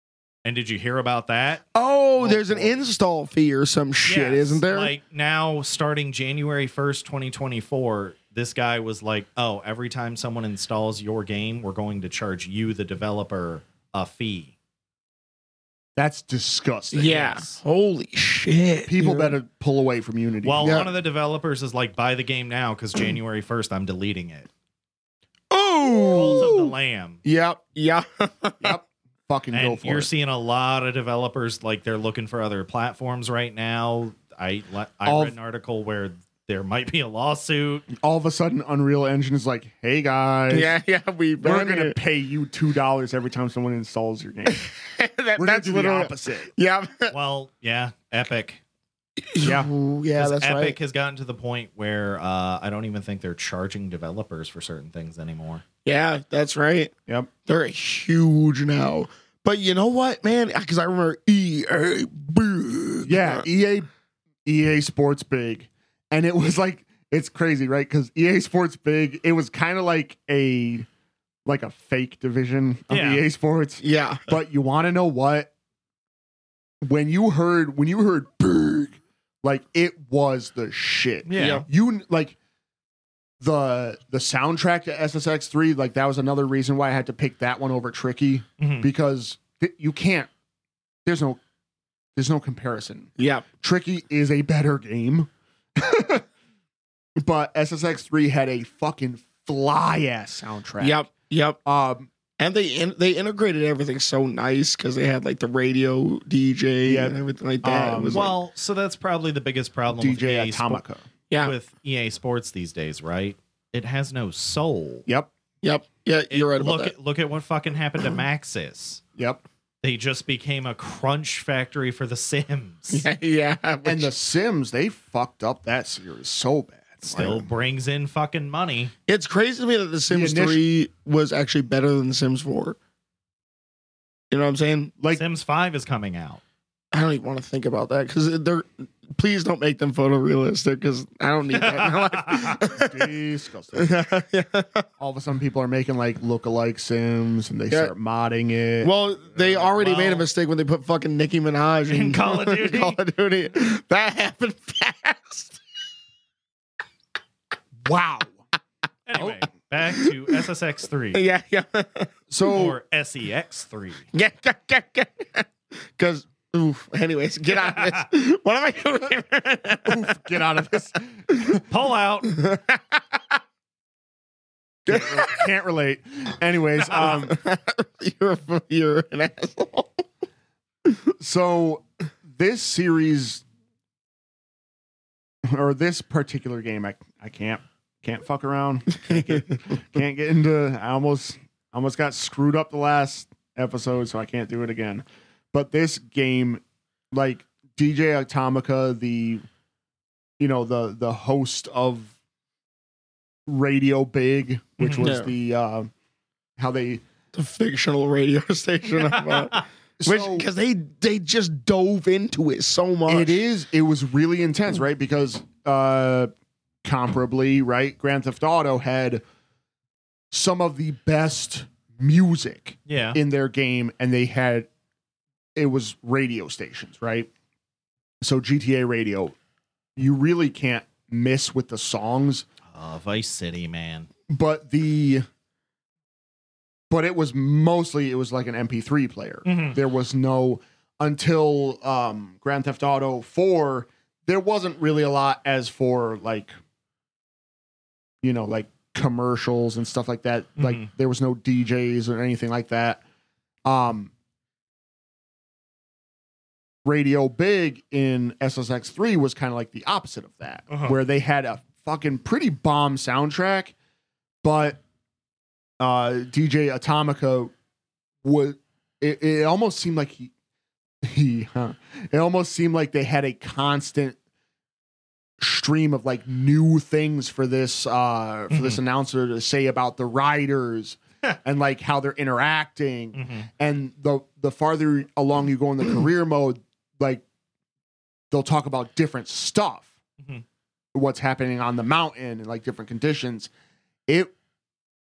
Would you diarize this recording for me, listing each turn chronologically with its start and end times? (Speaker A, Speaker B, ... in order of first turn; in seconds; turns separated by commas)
Speaker A: 0.4-1.6, Speaker B: 1.7-4.9, Speaker A: 2.1-2.8, Speaker A: 4.0-14.5, Speaker C: 15.9-17.2, Speaker B: 16.9-19.4, Speaker A: 17.0-17.6, Speaker C: 18.9-20.9, Speaker A: 20.4-24.5, Speaker B: 20.6-20.9, Speaker B: 25.5-26.7, Speaker A: 25.9-27.2, Speaker B: 27.2-28.8, Speaker C: 28.6-30.1, Speaker A: 29.5-37.9, Speaker C: 35.0-35.3, Speaker C: 38.0-40.8, Speaker B: 40.5-42.0, Speaker C: 41.4-44.7, Speaker B: 44.5-47.1, Speaker C: 45.4-46.5, Speaker A: 47.1-48.6, Speaker B: 49.2-50.8, Speaker C: 49.4-49.7, Speaker A: 50.1-55.6, Speaker B: 55.8-56.9, Speaker B: 57.5-63.4, Speaker C: 63.0-63.9, Speaker C: 64.4-70.9, Speaker C: 71.5-75.5, Speaker A: 72.9-73.2, Speaker B: 73.8-74.3, Speaker C: 76.8-82.3, Speaker A: 81.2-81.6, Speaker B: 81.3-81.6, Speaker C: 83.4-90.3, Speaker A: 88.6-88.9, Speaker C: 91.0-91.4, Speaker C: 92.2-96.2, Speaker B: 93.2-93.4, Speaker C: 97.2-101.1, Speaker B: 100.8-101.6, Speaker C: 101.6-102.1, Speaker B: 102.4-108.3, Speaker C: 106.8-108.3, Speaker A: 108.1-110.8, Speaker C: 109.9-111.0, Speaker A: 111.4-115.0, Speaker B: 115.6-116.9, Speaker A: 116.3-119.0, Speaker C: 119.2-119.4, Speaker A: 119.8-123.1, Speaker B: 122.9-124.1, Speaker C: 123.8-127.5, Speaker A: 127.0-128.9, Speaker B: 129.1-132.8, Speaker C: 130.1-130.6, Speaker B: 134.3-134.9, Speaker A: 135.1-136.4, Speaker B: 136.9-143.1, Speaker A: 141.5-142.8, Speaker C: 142.4-144.0, Speaker B: 143.8-144.9, Speaker C: 145.0-148.9, Speaker B: 148.8-155.6, Speaker A: 149.3-150.2, Speaker A: 151.9-153.0, Speaker C: 157.8-158.4, Speaker A: 159.1-161.2, Speaker B: 161.1-162.1, Speaker C: 162.3-162.8, Speaker A: 162.5-164.1, Speaker B: 164.1-170.2, Speaker A: 167.5-168.1, Speaker C: 169.8-171.6, Speaker A: 171.7-172.3, Speaker B: 172.3-173.4, Speaker B: 174.9-175.5, Speaker C: 174.9-177.4, Speaker B: 176.9-180.0, Speaker C: 181.2-183.4, Speaker C: 185.5-199.4, Speaker C: 200.4-202.1, Speaker C: 203.5-205.9, Speaker A: 204.8-205.1, Speaker B: 205.0-205.3, Speaker C: 206.6-207.0, Speaker B: 207.3-213.4, Speaker A: 209.1-209.6, Speaker C: 210.0-210.5, Speaker C: 213.1-216.3, Speaker C: 216.8-219.2, Speaker C: 220.3-224.7, Speaker A: 222.9-223.2, Speaker C: 225.6-227.3, Speaker C: 228.2-229.3, Speaker C: 230.0-232.4, Speaker A: 232.7-234.1, Speaker C: 234.3-235.2, Speaker C: 236.9-246.5, Speaker A: 239.4-239.8, Speaker C: 248.2-253.0, Speaker A: 250.6-250.9, Speaker C: 253.6-254.1, Speaker C: 256.8-263.7, Speaker A: 260.7-261.0, Speaker C: 264.4-264.8, Speaker C: 265.8-267.5, Speaker C: 268.2-270.3, Speaker C: 271.0-274.2, Speaker C: 275.4-287.2, Speaker A: 278.5-278.8, Speaker A: 283.1-283.5, Speaker C: 288.3-289.9, Speaker C: 290.9-293.5